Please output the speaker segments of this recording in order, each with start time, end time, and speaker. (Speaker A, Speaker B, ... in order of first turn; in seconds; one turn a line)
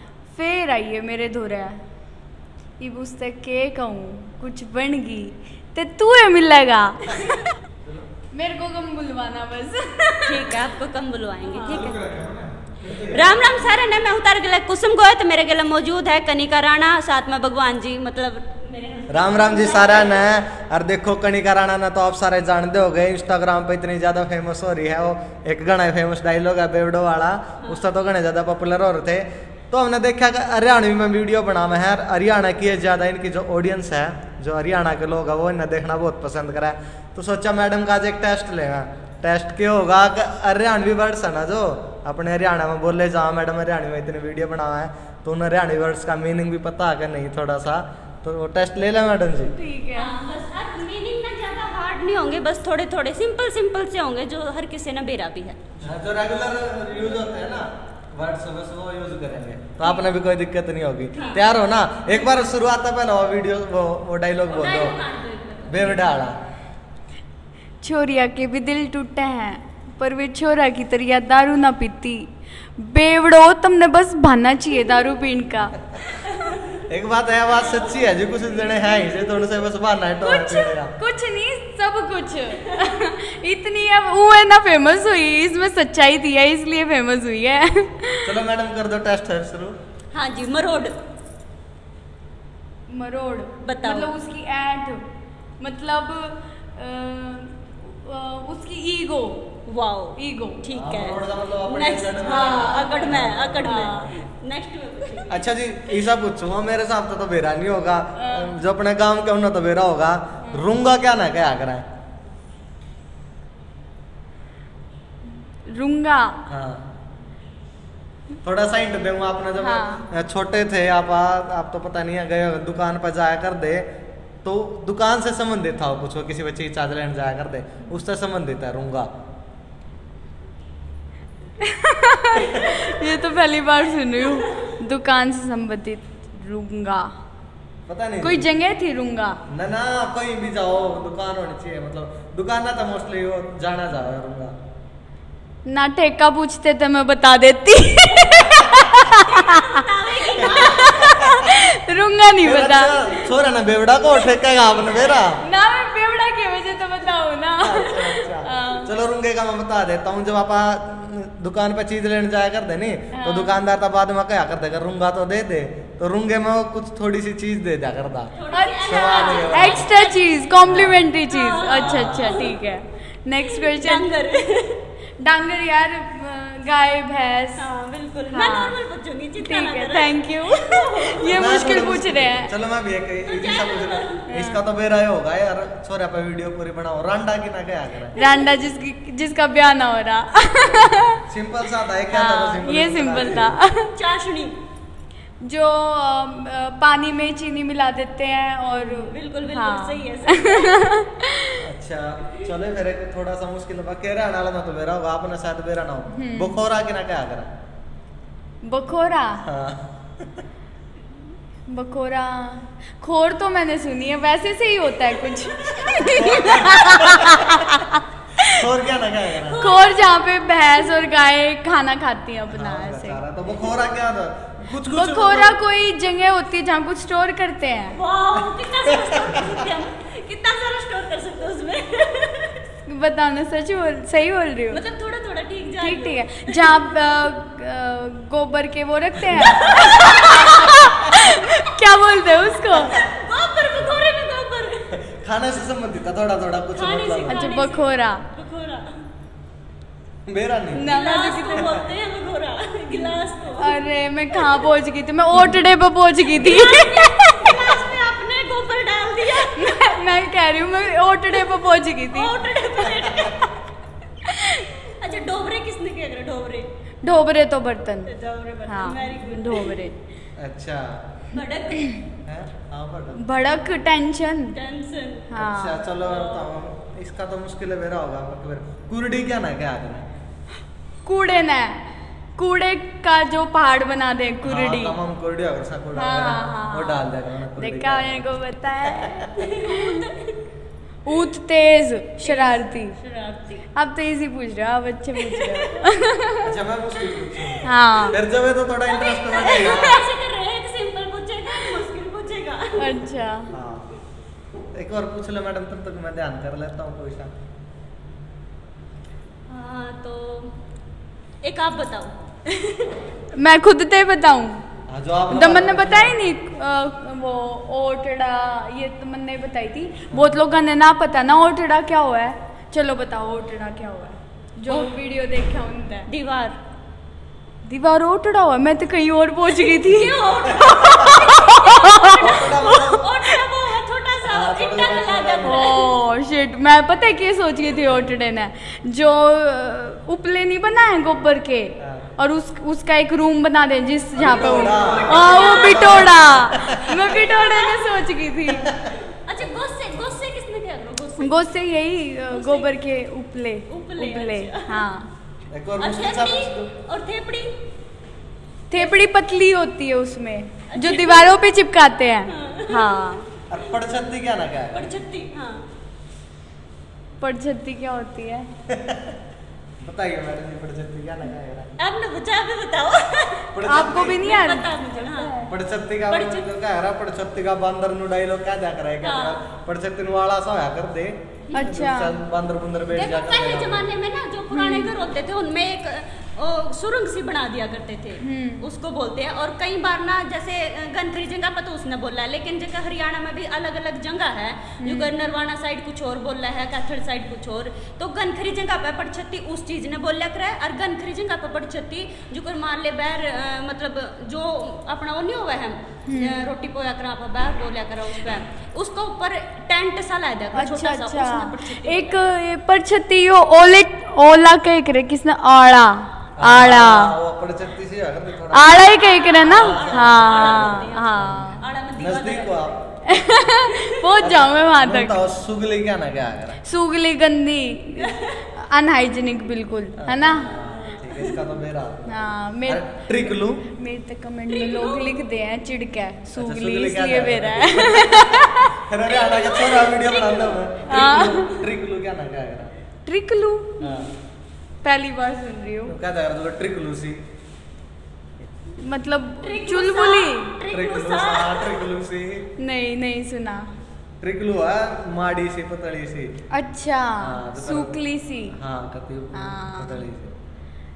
Speaker A: 0.3-1.7
Speaker A: 2.8-7.3
Speaker A: 8.3-10.6
Speaker B: 10.2-12.0
Speaker A: 11.4-12.0
Speaker C: 11.7-13.4
Speaker B: 13.1-20.4
Speaker C: 19.1-49.5
Speaker A: 49.5-50.1
Speaker B: 49.9-55.6
Speaker C: 55.8-65.0
Speaker B: 61.1-61.4
Speaker B: 64.5-66.2
Speaker C: 65.7-66.4
Speaker A: 67.8-75.8
Speaker B: 76.2-76.8
Speaker C: 76.9-80.9
Speaker B: 77.6-78.2
Speaker B: 78.7-79.1
Speaker A: 80.2-88.3
Speaker C: 88.2-89.7
Speaker B: 90.1-91.0
Speaker A: 92.9-95.0
Speaker B: 93.6-94.2
Speaker A: 95.6-99.5
Speaker B: 99.7-105.5
Speaker A: 100.2-100.6
Speaker C: 100.7-104.0
Speaker A: 102.2-104.1
Speaker C: 105.3-111.8
Speaker A: 108.2-108.5
Speaker A: 115.7-116.4
Speaker C: 116.5-116.9
Speaker C: 118.4-123.9
Speaker A: 119.6-120.1
Speaker C: 124.4-129.1
Speaker A: 131.6-137.1
Speaker C: 137.9-138.5
Speaker A: 138.2-139.4
Speaker C: 139.5-144.5
Speaker A: 145.7-153.2
Speaker B: 149.3-151.2
Speaker C: 150.4-151.5
Speaker C: 152.4-155.4
Speaker A: 155.4-158.9
Speaker C: 157.6-168.3
Speaker A: 163.1-163.6
Speaker B: 168.3-172.6
Speaker A: 168.5-174.1
Speaker C: 168.8-169.9
Speaker C: 170.7-171.0
Speaker C: 171.8-172.3
Speaker B: 173.4-174.8
Speaker A: 175.2-177.6
Speaker B: 177.6-181.3
Speaker A: 178.3-178.8
Speaker A: 179.4-182.5
Speaker C: 181.2-188.2
Speaker B: 183.3-184.3
Speaker A: 184.3-184.6
Speaker A: 188.2-191.2
Speaker C: 191.3-193.6
Speaker A: 192.1-193.9
Speaker B: 193.9-194.6
Speaker A: 195.4-201.6
Speaker B: 198.8-200.9
Speaker C: 201.6-207.5
Speaker A: 206.1-206.6
Speaker A: 208.6-209.5
Speaker C: 209.4-210.4
Speaker A: 211.7-218.6
Speaker B: 215.5-217.1
Speaker C: 216.0-217.7
Speaker C: 218.5-219.7
Speaker B: 219.4-220.2
Speaker A: 219.6-223.2
Speaker C: 222.5-225.6
Speaker A: 224.9-227.9
Speaker B: 227.9-232.6
Speaker C: 228.9-229.6
Speaker A: 232.8-234.8
Speaker B: 234.7-236.8
Speaker A: 235.8-243.0
Speaker B: 239.4-240.4
Speaker B: 242.8-244.9
Speaker C: 244.9-247.4
Speaker B: 246.7-248.9
Speaker A: 247.3-248.2
Speaker C: 250.2-250.9
Speaker A: 250.7-251.8
Speaker B: 250.8-253.8
Speaker A: 253.6-257.6
Speaker B: 256.3-259.8
Speaker A: 259.4-262.4
Speaker B: 262.1-263.5
Speaker C: 262.9-263.3
Speaker A: 264.3-264.6
Speaker B: 264.7-266.7
Speaker A: 267.0-268.1
Speaker B: 268.1-269.9
Speaker A: 268.6-269.9
Speaker C: 270.4-271.0
Speaker B: 271.3-272.0
Speaker C: 272.2-273.2
Speaker A: 273.2-274.5
Speaker B: 274.5-275.4
Speaker A: 275.3-275.8
Speaker C: 275.4-280.1
Speaker B: 276.0-276.5
Speaker A: 281.0-281.8
Speaker A: 282.4-285.0
Speaker C: 284.4-288.2
Speaker A: 285.9-290.0
Speaker B: 289.4-290.4
Speaker A: 291.0-292.9
Speaker B: 292.2-293.6
Speaker A: 293.8-296.5
Speaker B: 295.2-295.7
Speaker C: 296.4-300.0
Speaker A: 297.6-298.2
Speaker B: 298.9-303.0
Speaker A: 302.8-303.5
Speaker C: 303.5-303.9
Speaker C: 304.7-307.3
Speaker B: 309.5-310.5
Speaker B: 311.4-312.9
Speaker A: 313.3-314.6
Speaker C: 314.9-316.2
Speaker A: 315.3-326.1
Speaker C: 320.1-320.4
Speaker B: 326.1-326.5
Speaker A: 327.6-330.2
Speaker B: 329.5-335.9
Speaker C: 330.5-331.1
Speaker A: 330.9-332.8
Speaker C: 332.1-333.0
Speaker C: 334.2-335.7
Speaker A: 335.4-348.7
Speaker C: 341.8-342.1
Speaker C: 344.2-347.0
Speaker B: 344.6-346.2
Speaker B: 347.0-348.1
Speaker C: 348.5-348.9
Speaker B: 349.0-351.4
Speaker A: 351.2-355.1
Speaker B: 352.3-352.7
Speaker B: 353.7-354.8
Speaker C: 355.5-356.7
Speaker B: 355.8-357.5
Speaker A: 358.7-363.2
Speaker B: 360.7-361.4
Speaker B: 362.3-363.1
Speaker C: 363.5-364.9
Speaker B: 364.7-365.6
Speaker A: 367.2-368.5
Speaker C: 368.7-369.1
Speaker C: 369.8-371.8
Speaker B: 371.8-373.5
Speaker C: 373.5-374.2
Speaker A: 373.6-375.5
Speaker B: 374.1-375.3
Speaker C: 375.5-383.9
Speaker B: 376.1-376.5
Speaker B: 379.0-379.4
Speaker A: 381.5-382.2
Speaker B: 382.9-412.2
Speaker A: 384.5-384.9
Speaker A: 388.2-388.7
Speaker A: 394.8-395.1
Speaker A: 406.1-406.5
Speaker A: 410.5-417.1
Speaker C: 416.4-418.9
Speaker A: 418.5-421.6
Speaker B: 418.8-422.7
Speaker C: 419.4-421.4
Speaker C: 421.9-423.4
Speaker A: 423.1-425.2
Speaker B: 423.7-424.0
Speaker C: 424.2-426.6
Speaker A: 426.6-430.5
Speaker B: 428.0-428.4
Speaker C: 430.0-433.6
Speaker B: 430.7-431.4
Speaker A: 432.1-438.8
Speaker B: 434.5-435.1
Speaker C: 436.3-442.7
Speaker B: 439.0-441.6
Speaker A: 440.9-441.5
Speaker A: 443.1-444.0
Speaker C: 443.8-444.1
Speaker A: 444.8-445.9
Speaker C: 445.9-447.2
Speaker A: 448.8-450.6
Speaker B: 449.4-451.9
Speaker C: 450.7-452.5
Speaker A: 452.6-453.6
Speaker C: 454.2-456.3
Speaker A: 456.5-458.5
Speaker C: 457.2-458.0
Speaker C: 458.5-460.3
Speaker A: 459.3-460.0